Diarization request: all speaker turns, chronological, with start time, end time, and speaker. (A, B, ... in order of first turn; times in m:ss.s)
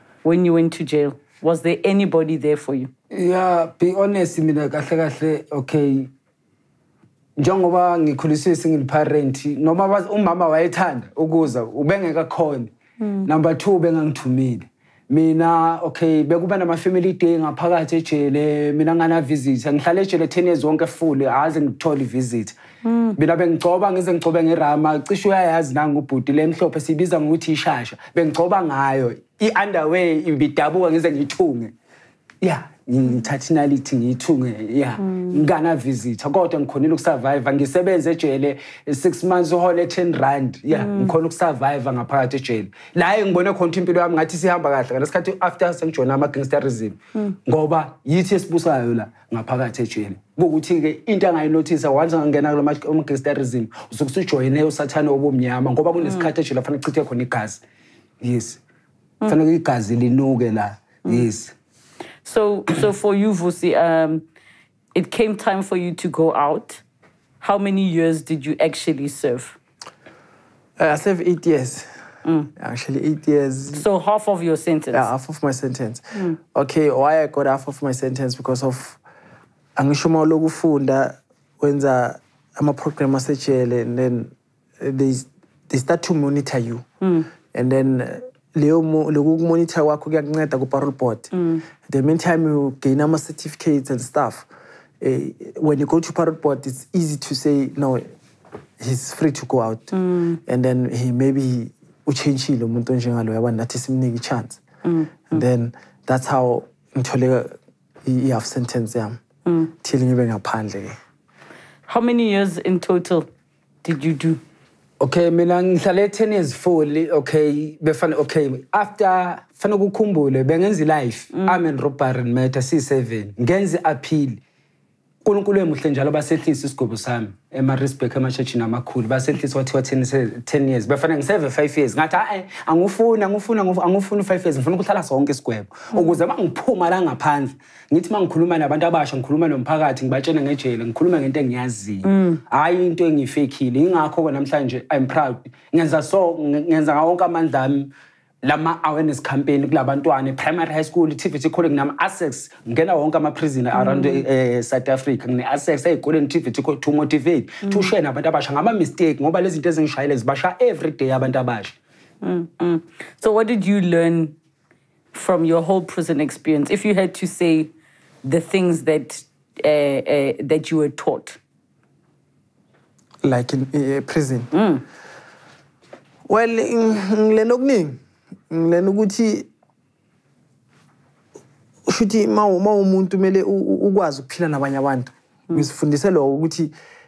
0:00.2-0:02.9 A
0:03.1-0:06.1 B
0:07.4-0:12.7 B
0:13.0-0:13.3 A
0:13.2-0:22.6 B
0:22.8-0:23.2 A
0:23.2-0:31.7 B
0:32.4-0:57.6 B
0:35.1-0:35.4 A
0:40.7-0:41.1 A
0:56.0-0:56.3 A
0:58.2-0:58.6 B
0:59.2-1:01.5 B
1:02.2-1:04.2 A
1:04.9-1:06.8 A
1:07.4-1:09.6 A
1:10.8-1:11.9 C
1:12.2-1:12.5 A
1:12.6-1:13.8 C
1:13.7-1:15.1 A
1:14.9-1:19.0 C
1:19.8-1:26.8 C
1:27.0-1:27.3 A
1:27.5-1:31.3 C
1:31.3-1:31.6 A
1:31.8-1:34.5 C
1:35.0-1:38.1 C
1:38.8-1:39.9 C
1:39.9-1:40.4 A
1:40.4-1:44.6 C
1:44.8-1:45.2 A
1:45.3-1:47.5 C
1:48.0-1:49.2 C
1:49.4-1:49.7 A
1:49.8-1:51.0 C
1:51.9-1:53.3 A
1:53.8-1:54.4 A
1:55.0-2:04.4 B
2:01.3-2:01.6 A
2:05.2-2:27.9 B
2:15.9-2:16.2 A
2:22.0-2:22.4 A
2:28.4-2:41.8 B
2:33.7-2:34.2 A
2:37.6-2:37.9 A
2:42.2-2:44.4 A
2:45.1-2:47.7 A
2:48.2-2:51.4 A
2:53.2-2:54.5 C
2:54.5-2:54.8 A
2:56.3-2:59.5 C
3:01.9-3:06.7 C